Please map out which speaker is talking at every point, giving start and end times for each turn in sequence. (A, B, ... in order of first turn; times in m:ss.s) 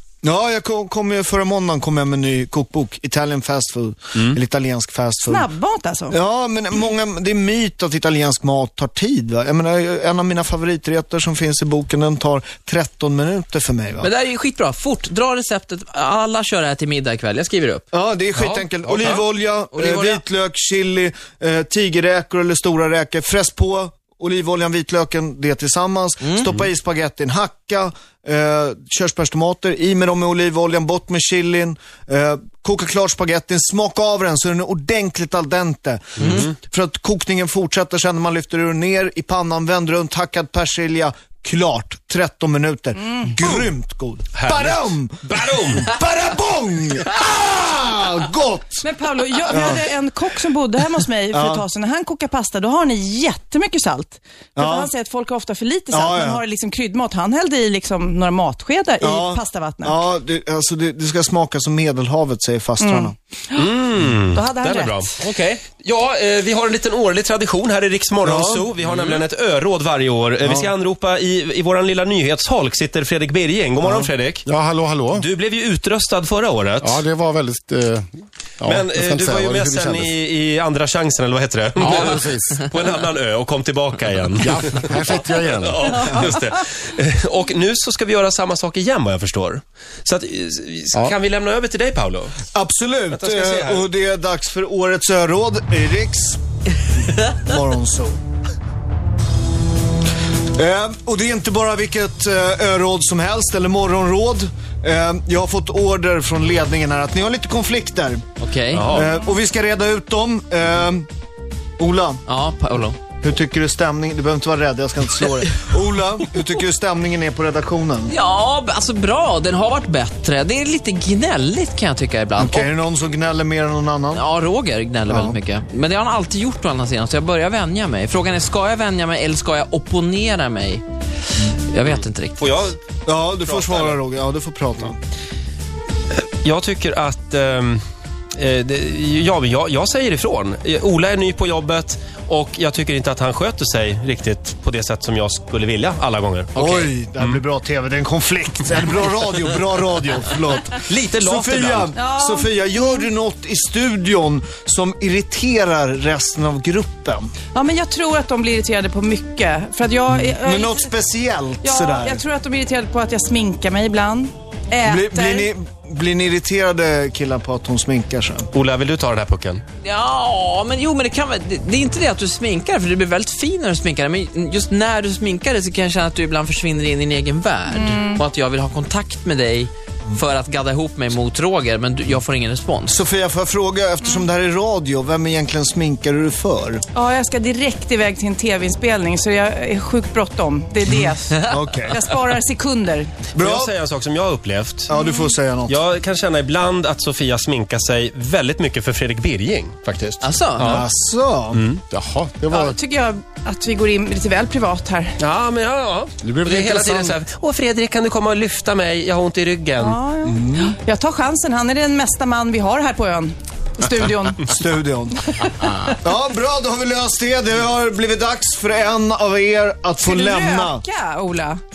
0:00.2-0:05.5 A
0:05.3-0:06.2 B
0:06.1-0:14.1 A
0:14.0-0:17.8 C
0:17.9-0:48.8 A
0:18.3-0:19.2 D
0:19.7-0:20.2 C
0:26.2-0:26.6 C
0:36.2-0:36.5 C
0:43.0-0:43.3 B
0:44.3-0:45.9 D
0:48.8-1:00.0 B
0:49.5-0:49.8 A
0:51.3-0:51.6 A
0:54.6-0:54.9 A
0:55.9-0:56.4 A
0:59.0-1:03.1 A
1:02.8-1:03.7 B
1:03.5-1:14.4 D
1:04.3-1:05.1 B
1:08.2-1:08.7 A
1:10.4-1:10.7 A
1:13.8-1:14.1 A
1:14.4-1:15.3 E
1:15.1-1:17.0 D
1:16.8-1:20.1 E
1:18.6-1:32.4 D
1:21.8-1:22.6 E
1:24.4-1:26.2 E
1:32.5-1:36.4 A
1:33.1-1:33.9 D
1:37.1-1:38.2 A
1:40.5-1:48.2 A
1:48.4-1:48.9 C
1:48.7-1:49.2 D
1:48.9-1:51.1 A
1:51.8-1:52.2 A
1:52.2-1:53.0 C
1:53.2-1:58.1 A
1:58.1-2:02.7 C
2:02.4-2:04.2 A
2:04.1-2:10.8 C
2:05.1-2:05.4 A
2:11.5-2:12.6 C
2:11.8-2:12.8 D
2:13.0-2:15.0 A
2:13.4-2:14.0 D
2:16.1-2:17.8 D
2:18.4-2:27.4 D
2:26.5-2:37.3 A
2:30.8-2:31.9 D
2:31.9-2:33.1 B
2:37.5-2:40.9 B
2:40.1-2:42.2 A
2:41.6-2:45.5 B
2:44.8-2:48.5 A
2:48.5-2:49.6 D
2:49.8-3:03.0 C
2:57.7-2:58.2 B
3:02.9-3:06.8 A
3:06.9-3:13.1 B
3:10.9-3:12.0 A
3:11.3-3:12.0 C
3:13.3-3:13.7 A
3:13.4-3:14.9 D
3:14.9-3:15.8 A
3:14.9-3:15.4 B
3:15.7-3:20.9 D
3:20.2-3:20.8 C
3:20.6-3:21.6 A
3:21.5-3:21.8 D
3:21.9-3:22.8 E
3:22.5-3:25.2 B
3:25.2-3:30.0 D
3:26.2-3:27.2 E
3:29.8-3:34.6 B
3:30.2-3:30.7 A
3:34.4-3:35.4 A
3:35.3-3:35.8 B
3:36.0-3:40.8 A
3:40.0-3:41.6 B